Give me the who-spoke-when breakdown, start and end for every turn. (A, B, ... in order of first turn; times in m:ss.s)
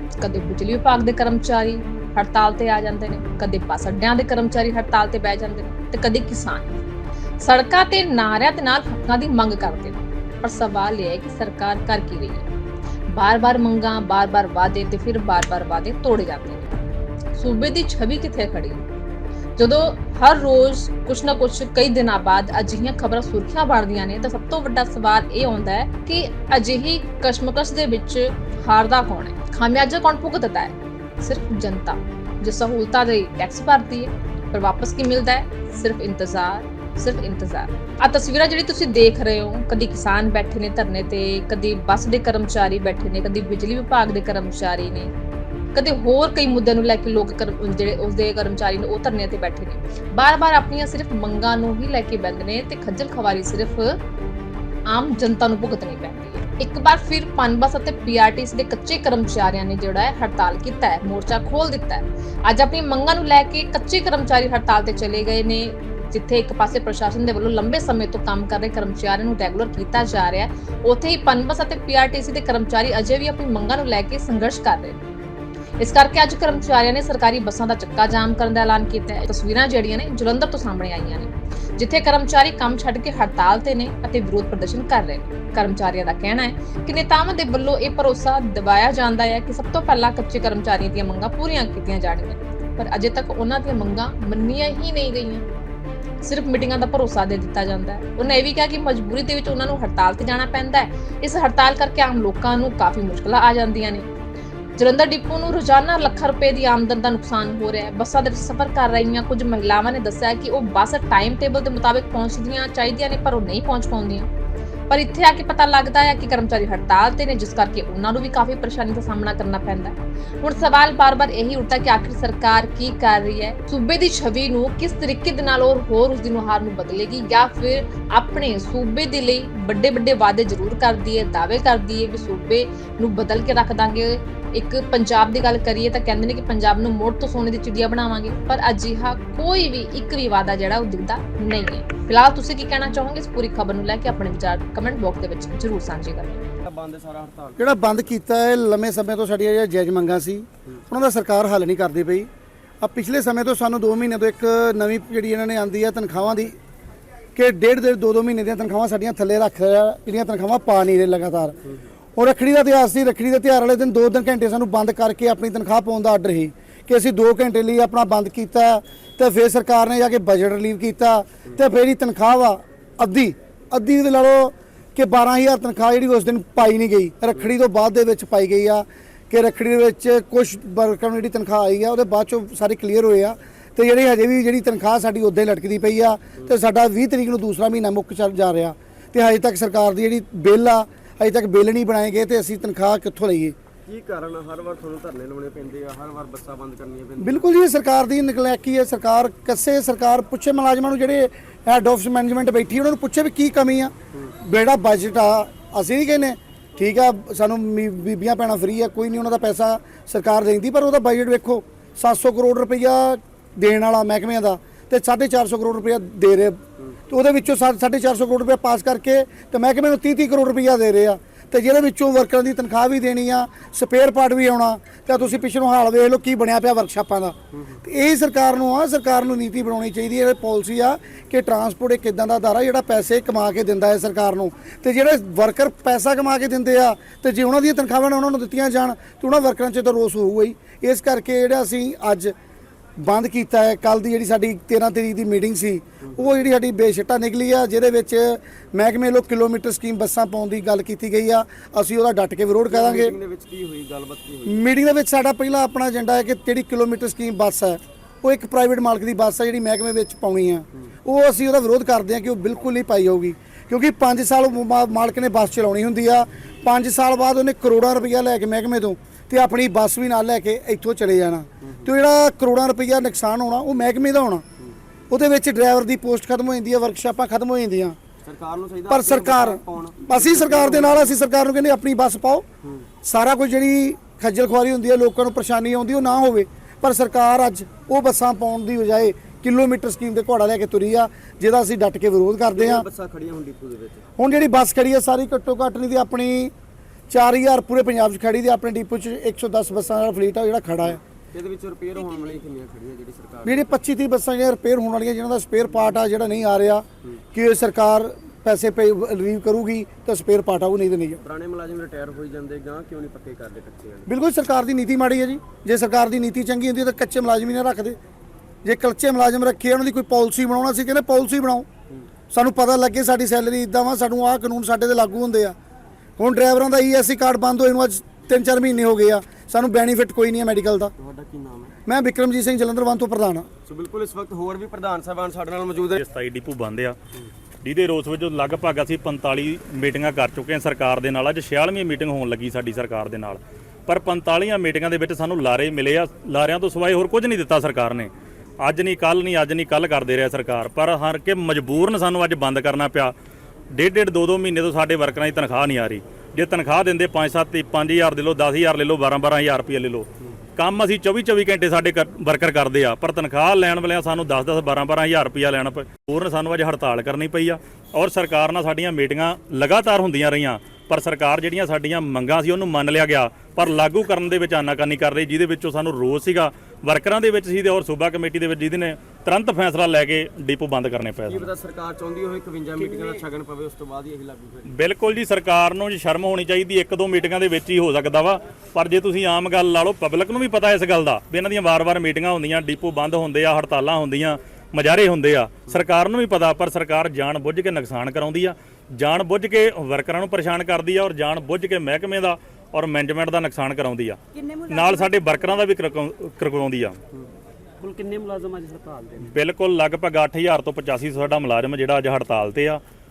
0:00.2-0:06.7 A
0:07.4-0:12.5 A
0:13.1-0:16.7 A
0:17.3-0:18.8 A
0:19.6-0:45.1 A
0:45.7-0:54.0 A
0:54.9-1:15.0 A
1:15.8-1:35.4 A
1:36.2-1:44.1 A
1:44.8-1:54.3 A
1:54.9-2:26.4 A
2:26.6-2:27.9 B
2:27.6-2:32.3 C
2:32.8-2:36.6 C
2:37.3-2:41.6 C
2:42.2-3:13.5 C
3:13.9-3:17.4 B
3:17.2-4:02.3 C
3:47.5-3:47.8 B
4:03.0-4:13.2 C
4:06.0-4:06.4 B
4:12.7-4:14.6 B
4:14.5-4:34.4 C
4:31.6-4:31.9 B
4:35.1-4:38.0 C
4:38.2-4:41.2 B
4:38.9-4:42.4 C
4:43.0-4:52.8 C
4:52.5-4:54.0 B
4:54.2-4:56.5 C
4:57.1-5:01.0 C
5:01.0-5:03.8 B
5:03.4-5:11.2 C
5:11.2-5:14.1 B
5:14.1-5:18.0 C
5:18.6-5:21.7 C
5:22.3-5:25.6 C
5:26.2-5:30.9 C
5:31.0-5:31.8 B
5:31.8-5:33.5 C
5:33.6-5:36.0 B
5:35.9-5:37.0 D
5:37.6-5:53.1 D
5:53.7-6:21.5 D
6:21.3-6:24.8 B
6:24.7-6:47.0 D
6:44.4-6:45.3 E
6:47.8-6:49.3 E
6:49.2-6:52.8 D